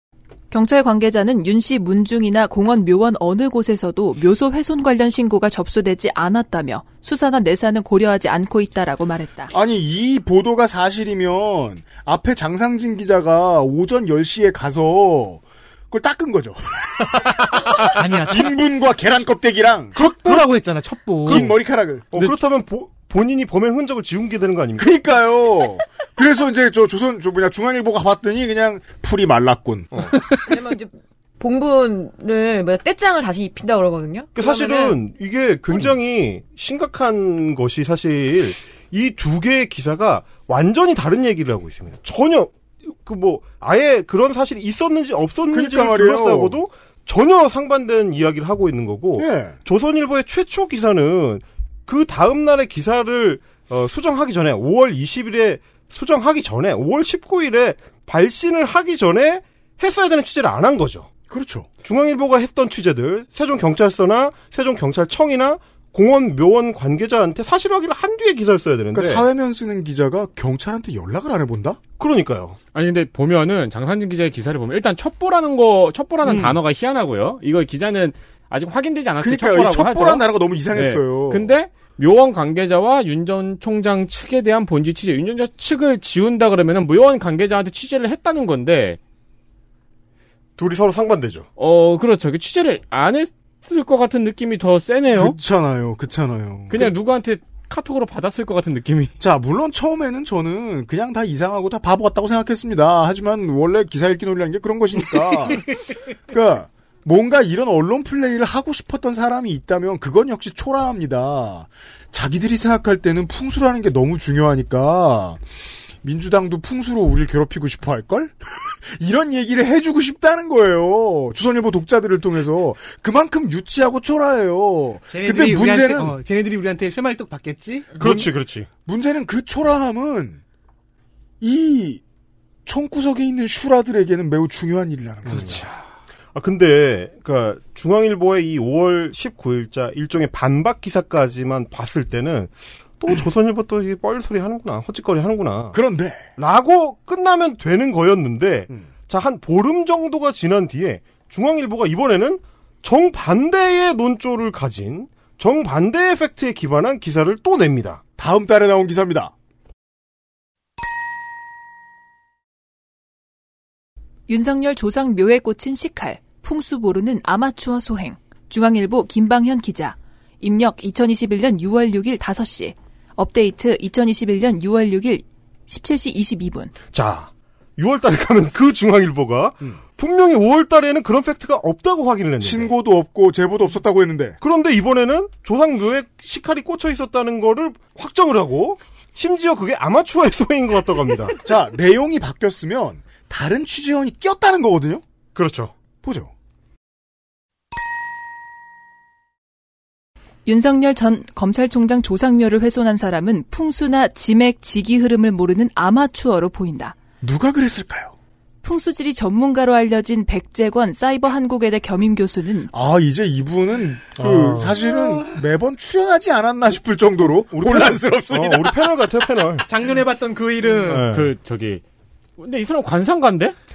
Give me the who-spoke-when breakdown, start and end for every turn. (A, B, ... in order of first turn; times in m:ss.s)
0:00.5-0:09.5 A
0:09.5-0:20.0 B
0:18.0-0:18.5 C
0:20.0-0:21.5 C
0:21.3-0:21.6 D
0:21.3-0:22.2 B
0:22.1-0:24.9 D
0:24.8-0:30.0 B
0:30.4-0:35.0 E
0:34.4-1:01.1 D
0:45.5-0:46.6 B
0:49.2-0:49.6 B
1:01.3-1:01.7 B
1:01.8-1:09.2 D
1:08.9-1:11.8 B
1:12.0-1:12.6 D
1:12.7-1:29.0 F
1:19.2-1:21.5 B
1:30.6-1:31.5 D
1:31.6-1:35.4 F
1:35.1-1:36.9 B
1:36.7-1:39.1 F
1:39.2-1:45.6 B
1:46.3-1:55.4 B
1:56.0-2:06.2 B
2:05.1-2:08.0 C
2:08.0-2:08.7 D
2:08.0-2:08.3 B
2:08.9-2:10.4 B
2:11.4-2:12.0 B
2:12.7-2:15.6 B
2:15.4-2:15.7 C
2:16.3-2:25.8 D
2:25.7-2:26.3 B
2:26.4-2:38.0 D
2:38.2-2:39.3 B
2:44.3-2:56.7 A
2:56.9-3:02.7 D
3:02.4-3:04.4 B
3:04.4-3:11.4 D
3:11.4-3:15.0 B
3:15.4-3:15.7 D
3:16.0-3:16.3 B
3:20.5-3:27.0 A
3:27.2-3:28.2 B
3:28.6-3:32.7 A
3:32.7-3:38.7 B
3:34.2-3:34.8 D
3:37.5-3:39.7 D
3:39.7-3:41.2 C
3:40.9-3:41.3 D
3:41.0-3:41.8 F
3:42.4-3:43.6 F